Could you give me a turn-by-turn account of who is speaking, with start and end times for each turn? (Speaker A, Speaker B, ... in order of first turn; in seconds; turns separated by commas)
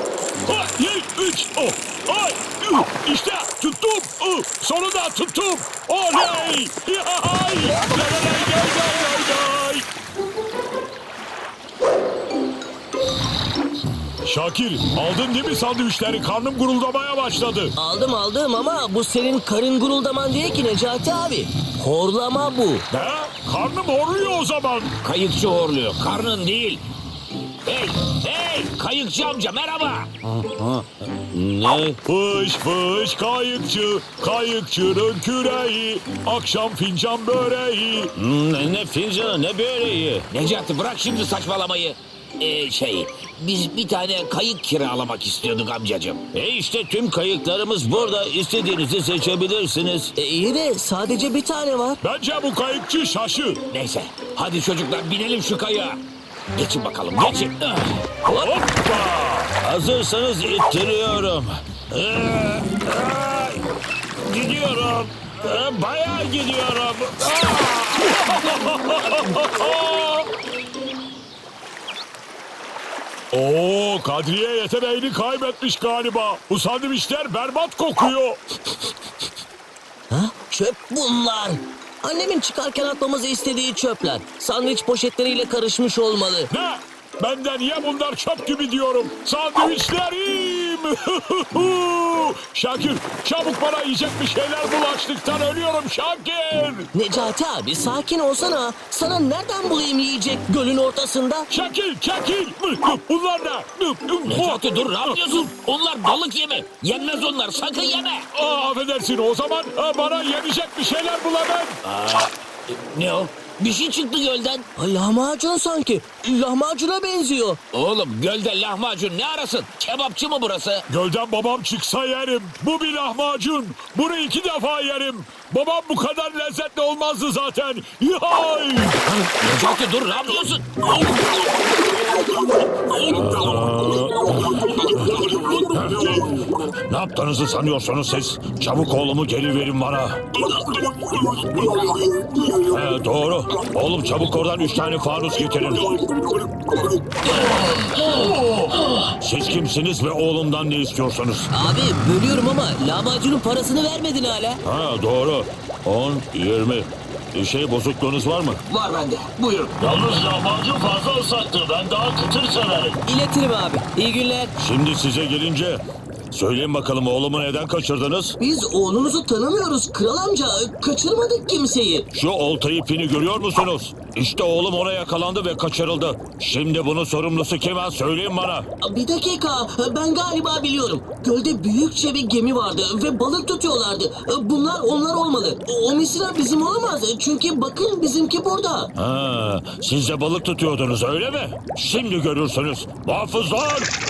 Speaker A: 0.4-9.9, Speaker A: 14.2-17.7, Speaker B: 17.8-22.9, Speaker A: 22.9-24.9, Speaker C: 25.0-26.8, Speaker C: 27.6-30.1, Speaker D: 30.2-32.0, Speaker A: 32.0-38.1, Speaker D: 38.2-40.3, Speaker C: 40.3-46.2, Speaker D: 46.3-50.1, Speaker B: 50.2-52.0, Speaker A: 52.0-53.6, Speaker C: 53.7-56.0, Speaker C: 56.5-58.1, Speaker A: 58.2-59.5, Speaker D: 59.6-63.6, Speaker D: 64.3-67.3, Speaker A: 67.4-70.3, Speaker A: 73.3-78.4, Speaker B: 80.1-86.5, Speaker A: 86.5-96.9, Speaker B: 96.9-101.5, Speaker A: 101.5-105.4, Speaker C: 104.3-108.3, Speaker A: 108.3-111.8, Speaker C: 111.8-114.7, Speaker B: 114.8-117.6, Speaker C: 117.7-120.9, Speaker A: 120.9-129.0, Speaker C: 129.1-131.1, Speaker A: 132.9-133.9, Speaker D: 133.1-136.2, Speaker A: 134.4-136.2, Speaker D: 136.9-140.2, Speaker A: 140.6-142.6, Speaker D: 142.6-146.0, Speaker D: 149.2-151.5, Speaker B: 151.5-154.6, Speaker D: 154.6-158.6, Speaker C: 158.7-159.8, Speaker D: 159.8-163.0, Speaker B: 163.1-164.5, Speaker D: 164.6-168.4, Speaker B: 168.4-172.1, Speaker D: 172.1-178.7, Speaker B: 178.8-188.9, Speaker D: 189.0-193.9